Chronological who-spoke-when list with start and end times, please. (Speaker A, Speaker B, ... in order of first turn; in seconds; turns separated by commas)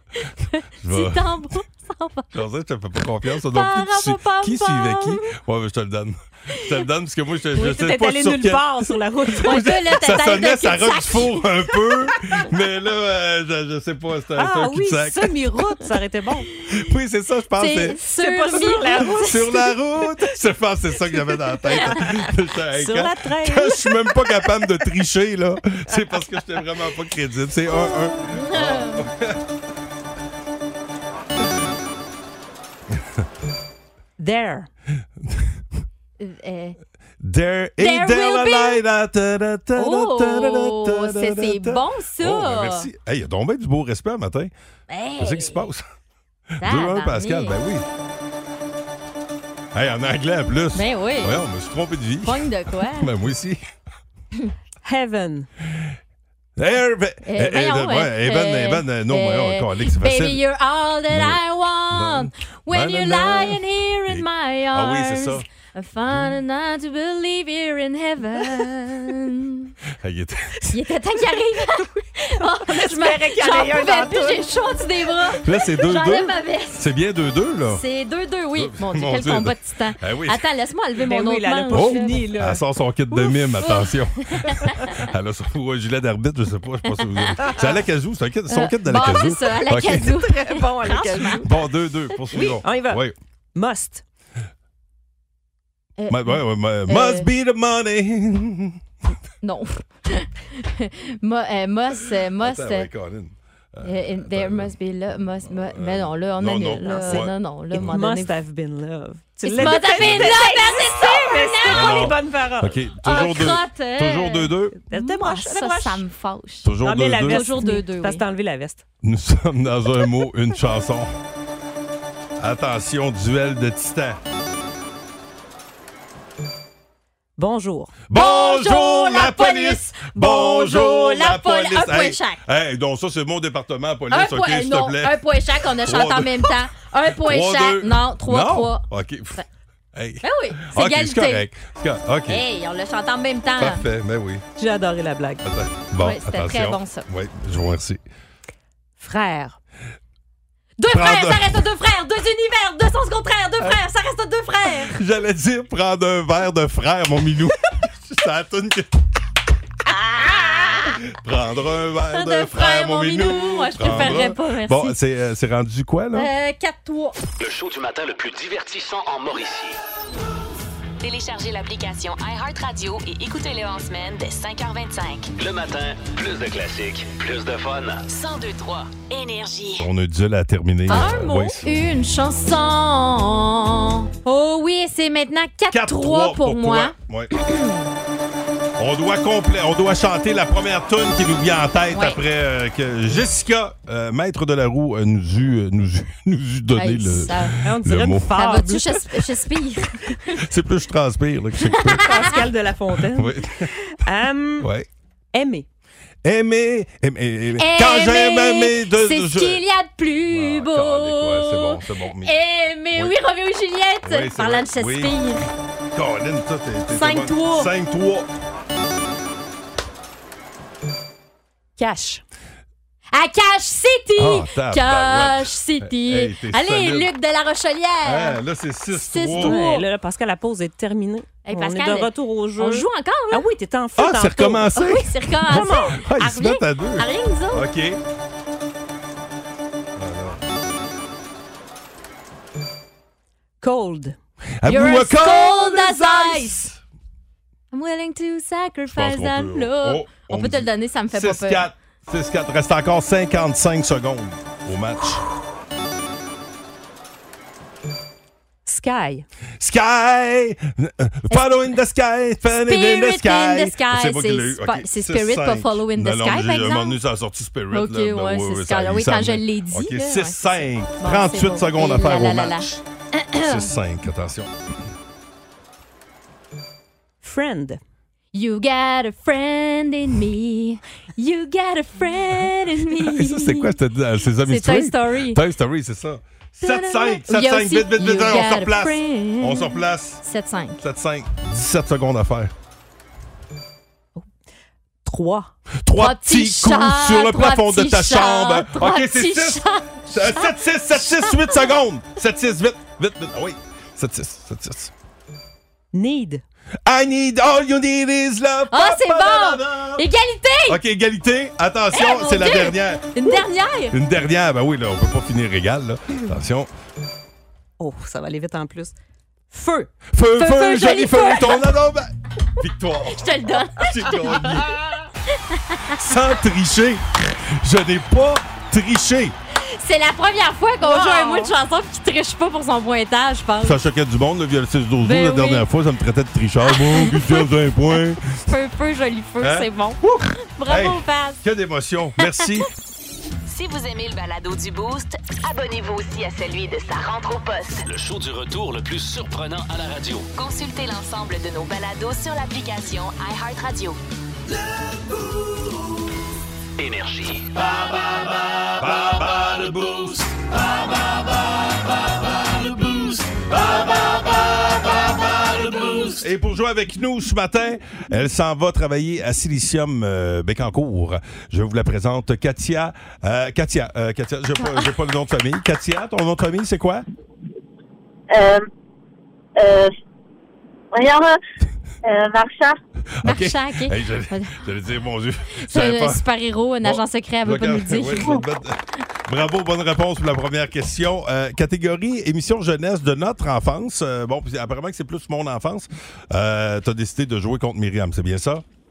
Speaker A: 0.4-2.3, Speaker B: 0.8-1.5, Speaker B: 2.3-15.3, Speaker A: 3.5-5.2, Speaker C: 7.5-9.6, Speaker A: 9.4-12.0, Speaker C: 14.3-16.5, Speaker B: 16.7-18.0, Speaker A: 17.6-19.6, Speaker C: 18.2-19.6, Speaker B: 18.9-29.4, Speaker C: 21.7-24.2, Speaker A: 27.9-29.1, Speaker B: 32.9-33.2, Speaker C: 34.2-34.7, Speaker B: 35.2-35.6, Speaker A: 36.2-36.8, Speaker B: 37.2-44.5, Speaker A: 37.8-38.8, Speaker A: 39.8-42.9, Speaker A: 44.9-45.6, Speaker B: 45.2-45.9, Speaker B: 46.6-47.9, Speaker A: 46.6-47.6, Speaker B: 49.7-53.6, Speaker A: 50.7-51.4, Speaker A: 52.2-53.1, Speaker C: 54.8-55.5, Speaker B: 56.6-60.4, Speaker A: 57.2-69.7, Speaker B: 61.1-65.5, Speaker B: 70.0-70.6, Speaker A: 70.7-76.9, Speaker C: 72.5-74.5, Speaker B: 75.3-77.8, Speaker A: 77.7-82.3, Speaker B: 78.5-80.4, Speaker C: 81.0-83.7, Speaker B: 81.7-90.2, Speaker A: 83.6-85.0, Speaker A: 86.9-87.5, Speaker A: 88.5-91.5, Speaker C: 90.2-91.5, Speaker B: 91.4-93.2, Speaker C: 92.3-93.0, Speaker C: 93.5-94.0, Speaker A: 96.0-97.3, Speaker B: 96.1-98.8, Speaker A: 99.4-102.9, Speaker B: 102.4-104.7, Speaker A: 103.8-108.3, Speaker B: 105.4-107.9, Speaker C: 106.8-112.8, Speaker A: 109.4-112.1, Speaker B: 109.5-110.4, Speaker B: 111.6-114.8, Speaker A: 113.0-118.2, Speaker C: 114.8-116.0, Speaker B: 116.6-117.4, Speaker C: 116.8-118.8, Speaker B: 119.0-121.1, Speaker B: 122.4-124.2, Speaker C: 127.4-128.0, Speaker B: 128.1-136.6, Speaker A: 128.1-132.4, Speaker A: 134.1-138.8, Speaker B: 137.1-139.4, Speaker B: 139.9-142.4, Speaker A: 140.2-141.4, Speaker A: 142.3-143.8, Speaker B: 143.6-144.4, Speaker C: 144.6-145.4, Speaker B: 145.4-148.0, Speaker A: 146.0-147.1, Speaker C: 149.0-149.6, Speaker A: 150.8-154.9, Speaker B: 150.9-151.6, Speaker B: 154.7-158.9, Speaker A: 159.9-161.0, Speaker B: 160.6-166.3, Speaker A: 162.1-164.9, Speaker A: 166.1-167.2, Speaker D: 167.4-169.8, Speaker E: 171.0-175.3, Speaker D: 175.4-178.0, Speaker E: 178.1-179.8, Speaker B: 179.8-181.7, Speaker A: 180.9-187.8, Speaker B: 185.7-187.3, Speaker B: 188.8-198.3, Speaker A: 191.9-192.2, Speaker A: 196.8-197.5, Speaker C: 197.6-199.3, Speaker A: 198.3-200.4, Speaker B: 200.4-202.2, Speaker A: 201.7-202.1, Speaker C: 202.0-204.7, Speaker B: 203.1-203.9, Speaker B: 204.6-204.9, Speaker C: 205.3-205.7, Speaker B: 206.2-209.6, Speaker A: 207.6-215.4, Speaker B: 210.3-212.3, Speaker B: 214.0-215.2, Speaker B: 215.9-218.3, Speaker A: 216.9-217.7, Speaker C: 221.8-222.2, Speaker A: 223.1-228.4, Speaker B: 224.2-227.1, Speaker B: 228.0-229.6, Speaker A: 228.9-229.8, Speaker C: 229.4-234.7, Speaker A: 231.4-233.4, Speaker B: 234.0-238.0, Speaker A: 234.7-237.6, Speaker C: 235.5-236.0, Speaker B: 239.9-240.4, Speaker C: 243.6-244.2, Speaker B: 244.6-246.8, Speaker A: 244.7-246.7, Speaker A: 247.7-251.7, Speaker B: 248.9-255.2, Speaker C: 258.6-259.2, Speaker B: 259.6-272.8, Speaker A: 262.7-267.0, Speaker A: 267.7-273.7, Speaker B: 273.4-274.5, Speaker C: 277.2-277.8, Speaker A: 278.3-283.8, Speaker B: 282.9-290.2, Speaker A: 284.4-285.4, Speaker A: 286.6-290.8, Speaker B: 290.8-292.5, Speaker C: 295.1-295.5, Speaker B: 295.8-304.9, Speaker A: 296.0-301.7, Speaker C: 305.9-306.4, Speaker B: 306.8-310.1, Speaker A: 308.7-310.8, Speaker B: 310.7-316.7, Speaker A: 311.9-314.0, Speaker C: 317.8-318.9, Speaker C: 319.5-319.9, Speaker B: 320.1-324.8, Speaker A: 320.3-321.7, Speaker A: 323.1-324.7, Speaker A: 325.5-325.9, Speaker B: 325.9-329.3, Speaker A: 329.8-333.8, Speaker C: 330.8-331.5, Speaker B: 333.6-338.4, Speaker A: 335.0-335.7, Speaker A: 336.7-337.5, Speaker A: 338.5-340.0, Speaker B: 339.4-342.7, Speaker A: 340.5-341.4, Speaker A: 342.2-342.5, Speaker E: 343.5-347.9, Speaker D: 347.9-350.3, Speaker E: 350.3-354.0, Speaker D: 356.8-357.5, Speaker B: 358.8-360.3, Speaker D: 365.5-366.0, Speaker B: 366.0-377.0, Speaker F: 378.3-378.6, Speaker F: 379.6-379.9, Speaker F: 380.9-381.4, Speaker F: 382.1-382.8, Speaker B: 383.2-386.2, Speaker A: 383.2-384.6, Speaker A: 385.7-388.4, Speaker B: 386.8-398.6